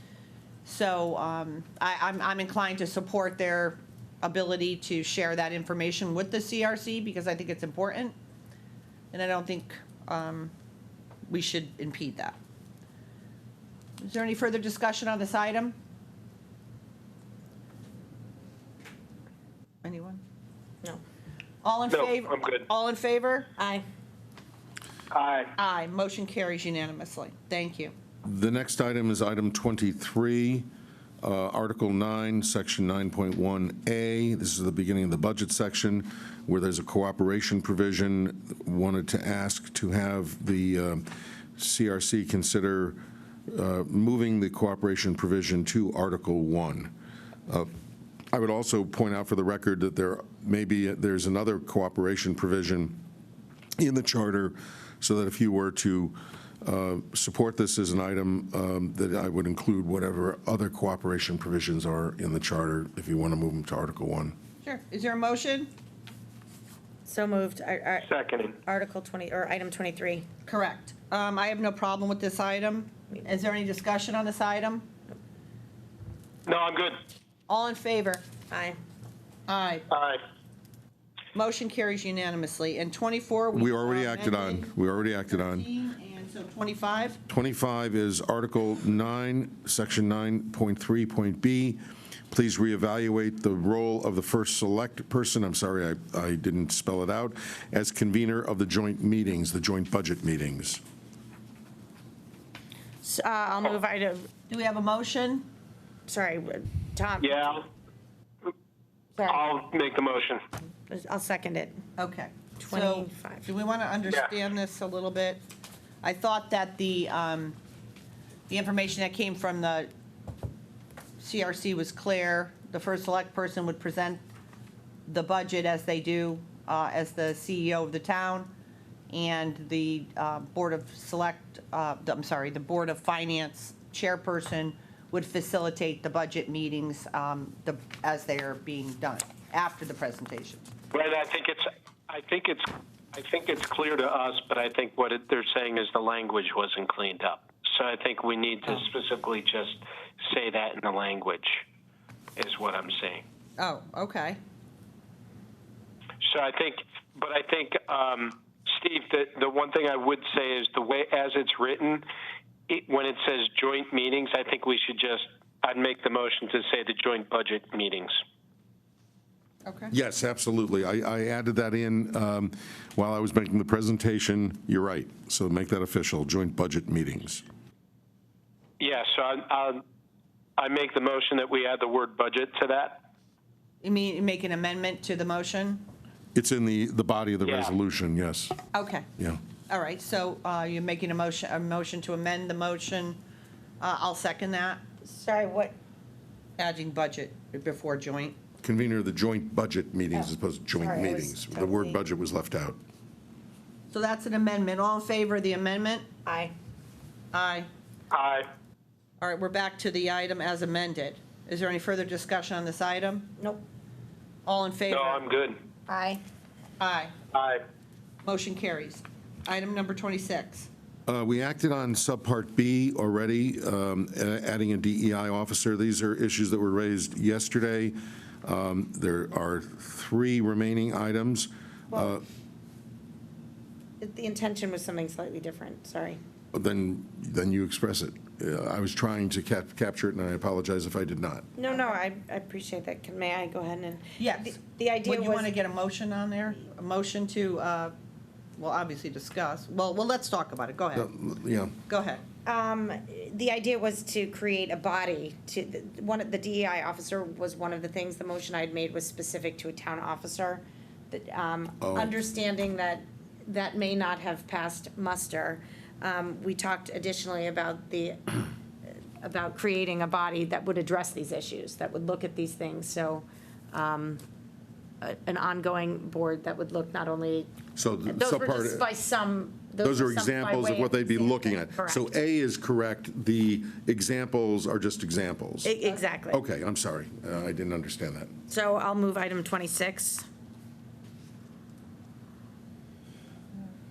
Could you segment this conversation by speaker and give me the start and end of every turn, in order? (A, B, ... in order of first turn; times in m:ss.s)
0:00.6-0:08.2 A
0:09.1-0:10.5 A
0:11.3-0:12.4 A
0:14.0-0:15.8 A
0:19.8-0:20.2 A
0:21.6-0:23.5 A
0:21.9-0:22.6 B
0:23.6-0:23.8 C
0:25.1-0:25.5 B
0:25.6-0:27.9 A
0:28.2-0:30.7 D
0:31.2-0:46.9 D
0:48.3-0:53.0 D
0:53.8-1:04.4 D
1:04.6-1:05.7 A
1:07.1-1:08.1 C
1:08.0-1:08.6 B
1:08.6-1:10.3 C
1:10.5-1:14.9 A
1:16.5-1:17.0 B
1:17.5-1:18.2 A
1:18.5-1:18.8 C
1:19.5-1:19.9 A
1:19.9-1:20.2 B
1:21.4-1:27.2 A
1:23.5-1:25.7 D
1:27.3-1:40.8 D
1:43.0-1:44.3 C
1:44.5-1:45.5 A
1:46.1-1:47.5 C
1:47.2-1:47.7 B
1:49.2-1:49.5 C
1:49.2-1:50.4 B
1:50.9-1:51.8 C
1:52.0-1:55.4 A
1:52.6-1:53.5 C
1:56.0-1:57.6 A
1:58.5-1:59.9 A
2:01.2-2:04.2 A
2:05.1-2:08.5 A
2:09.1-2:20.7 A
2:20.9-2:31.6 B
2:32.4-2:33.2 B
2:33.6-2:34.4 A
2:36.2-2:42.1 B
2:42.7-2:48.2 B
2:49.6-2:49.9 A
2:49.9-2:57.4 D
2:58.8-2:59.8 B
3:00.6-3:03.0 B
3:03.8-3:05.9 A
3:06.4-3:08.6 D
3:07.4-3:07.7 B
3:08.7-3:09.1 A
3:09.7-3:13.2 A
3:13.8-3:14.8 A
3:15.0-3:15.8 C
3:16.6-3:18.4 A
3:18.6-3:22.8 D
3:20.1-3:22.0 C
3:23.9-3:26.1 A
3:26.2-3:26.6 C
3:27.3-3:27.7 A
3:28.1-3:28.5 B
3:29.2-3:33.4 A
3:33.4-3:33.6 C
3:34.5-3:35.3 A
3:34.9-3:35.6 B
3:35.9-3:36.2 C
3:36.8-3:37.2 A
3:37.3-3:37.6 B
3:38.2-3:40.7 A
3:41.1-3:52.2 D
3:54.0-3:56.2 C
3:56.5-4:01.4 D
4:01.6-4:05.5 C
4:04.2-4:07.9 A
4:08.6-4:11.1 A
4:10.9-4:11.8 D
4:11.9-4:12.2 A
4:12.5-4:28.5 C
4:21.8-4:22.2 D
4:29.2-4:34.2 C
4:35.0-4:37.5 C
4:37.8-4:38.9 D
4:38.1-4:42.1 C
4:39.8-4:45.8 D
4:45.6-4:46.4 C
4:46.3-4:48.3 D
4:48.5-4:50.3 C